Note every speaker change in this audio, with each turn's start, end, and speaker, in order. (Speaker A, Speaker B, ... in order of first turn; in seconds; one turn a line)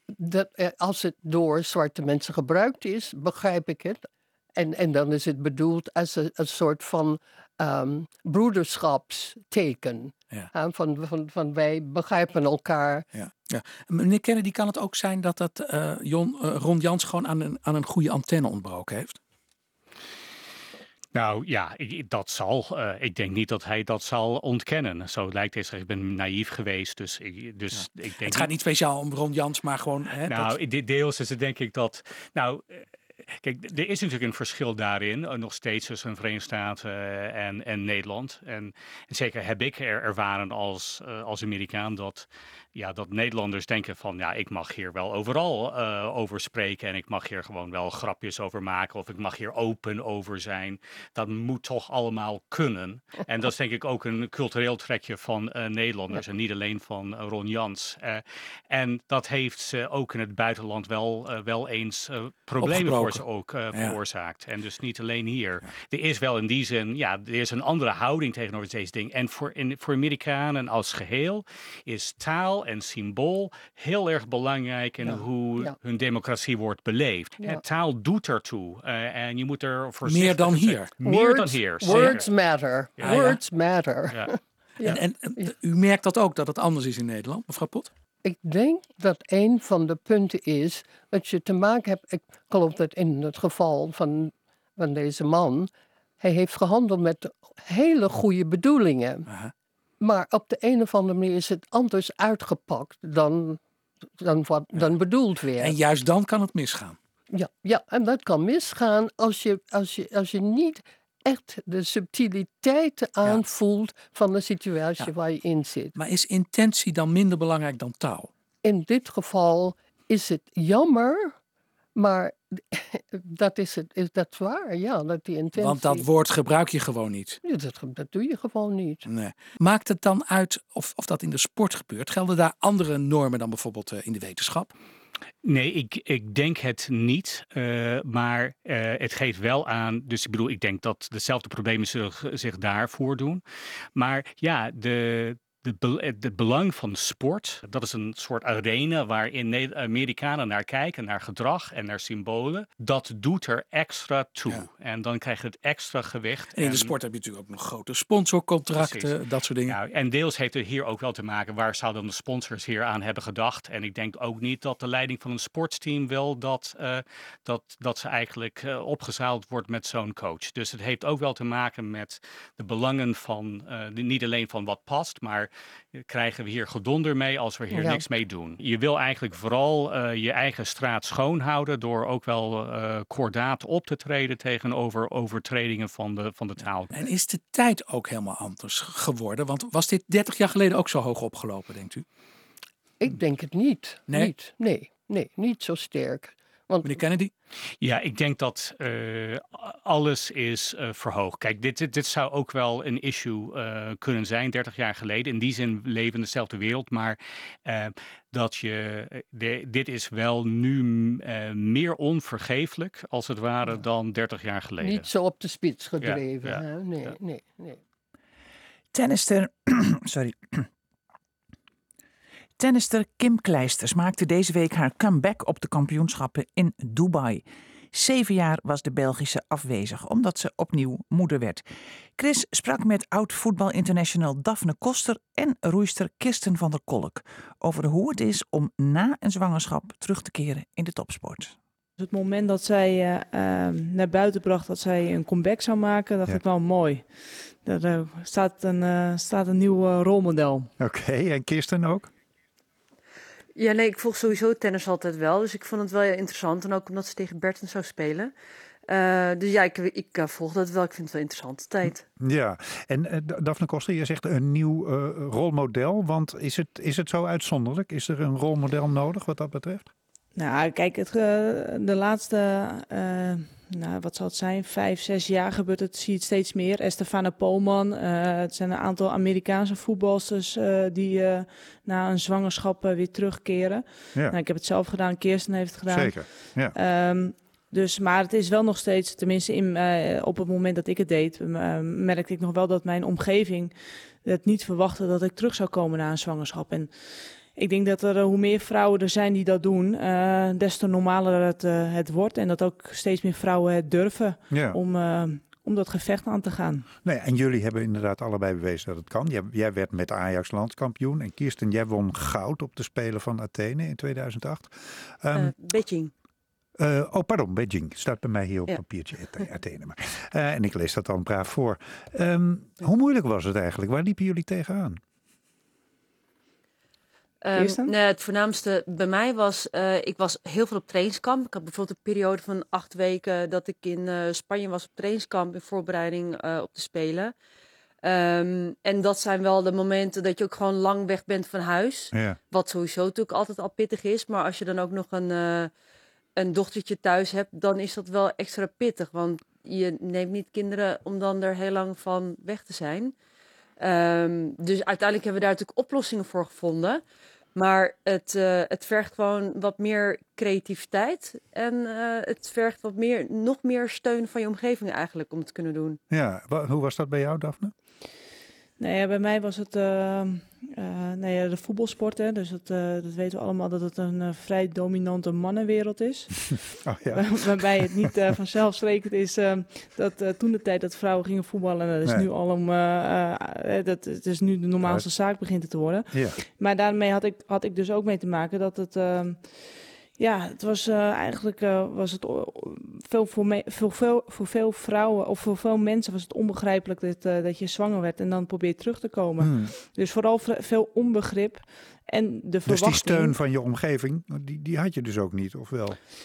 Speaker A: 0.2-13.1
Speaker B: 13.1-19.2
Speaker C: 21.1-28.5
Speaker B: 27.7-30.5
Speaker C: 30.2-82.3
Speaker B: 62.6-64.0
Speaker A: 75.0-75.8
Speaker A: 77.4-77.6
Speaker B: 80.0-81.0
Speaker A: 81.0-85.5
Speaker B: 81.9-82.2
Speaker C: 83.0-83.3
Speaker B: 83.0-83.4
Speaker B: 84.8-87.9
Speaker A: 88.2-99.2
Speaker B: 99.3-99.5
Speaker A: 100.0-103.6
Speaker A: 104.2-105.8
Speaker B: 105.6-107.0
Speaker A: 107.3-116.0
Speaker B: 116.0-118.3
Speaker A: 118.6-121.3
Speaker A: 122.0-126.1
Speaker B: 125.5-127.4
Speaker A: 127.4-129.1
Speaker B: 129.1-134.7
Speaker C: 135.4-143.4
Speaker C: 143.9-156.9
Speaker B: 156.5-159.8
Speaker C: 158.7-159.1
Speaker C: 159.7-187.0
Speaker A: 177.7-178.0
Speaker B: 186.9-192.1
Speaker A: 193.0-197.0
Speaker B: 196.8-197.3
Speaker C: 197.8-215.1
Speaker A: 214.8-217.8
Speaker C: 216.0-217.1
Speaker D: 218.9-220.7
Speaker D: 222.6-231.6
Speaker D: 232.2-241.6
Speaker E: 242.0-250.7
Speaker F: 250.8-252.1
Speaker G: 253.6-258.3
Speaker G: 258.9-262.0
Speaker F: 262.2-269.9
Speaker E: 270.3-306.9
Speaker F: 285.9-286.7
Speaker F: 304.5-304.8
Speaker F: 307.0-315.5
Speaker G: 315.3-316.1
Speaker F: 316.8-325.0
Speaker G: 327.4-337.3
Speaker E: 327.5-327.9
Speaker G: 338.0-345.7
Speaker F: 342.1-342.4
Speaker G: 346.4-353.1
Speaker G: 353.8-357.0
Speaker G: 357.5-366.0
Speaker F: 366.1-367.7
Speaker E: 368.8-403.4
Speaker F: 376.8-378.1
Speaker F: 384.8-385.1
Speaker F: 386.1-386.4
Speaker F: 399.4-399.7
Speaker F: 402.6-406.0